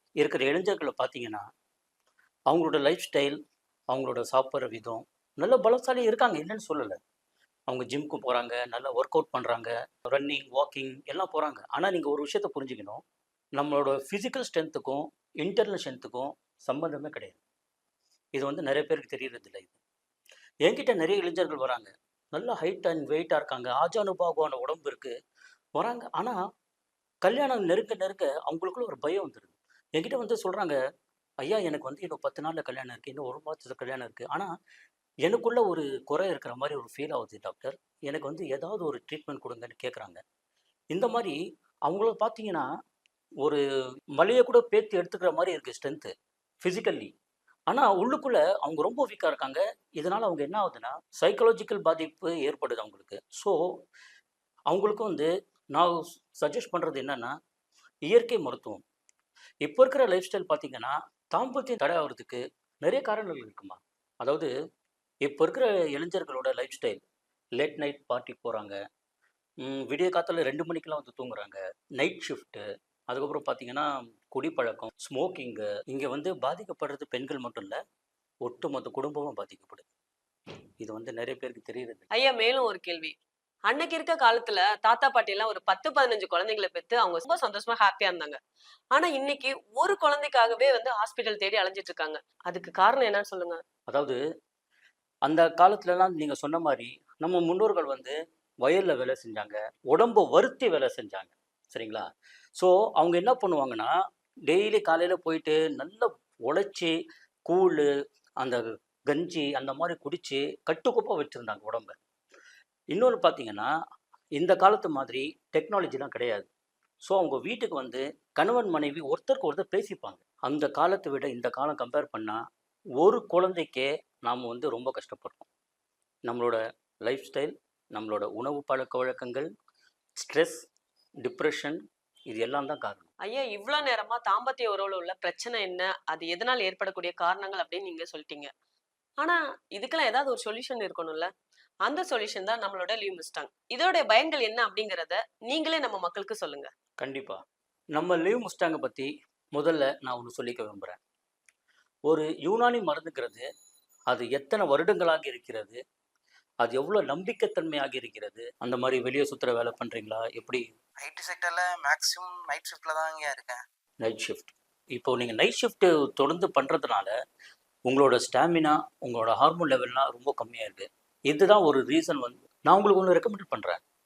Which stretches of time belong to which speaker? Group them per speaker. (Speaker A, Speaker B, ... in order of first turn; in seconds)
Speaker A: 0.2-1.4, 2.5-3.4, 3.9-7.0, 7.7-13.0, 13.6-17.4, 18.4-19.8, 20.7-25.1, 25.8-26.4, 27.2-30.8, 31.4-34.5, 35.2-40.2, 40.9-42.7, 44.2-47.1, 47.7-53.6, 54.7-57.3, 58.1-58.8, 59.6-64.5, 65.2-67.0, 67.6-68.8, 69.6-77.8, 78.4-79.9, 80.8-82.0, 93.9-94.2, 95.2-102.0, 102.6-103.9, 104.5-106.9, 107.5-107.9, 108.4-112.0, 112.9-113.7, 114.4-116.5, 117.1-122.4, 123.0-125.5, 126.3-129.5, 130.2-130.6, 131.2-131.8, 132.3-133.1, 147.0-147.4, 148.0-151.0, 152.1-153.4, 154.1-155.8, 156.6-160.6, 164.0-167.1, 167.9-173.8
Speaker B: 82.1-83.2, 83.7-88.4, 88.9-93.6, 133.3-138.5, 139.2-141.3, 141.9-146.7
Speaker C: 161.0-163.6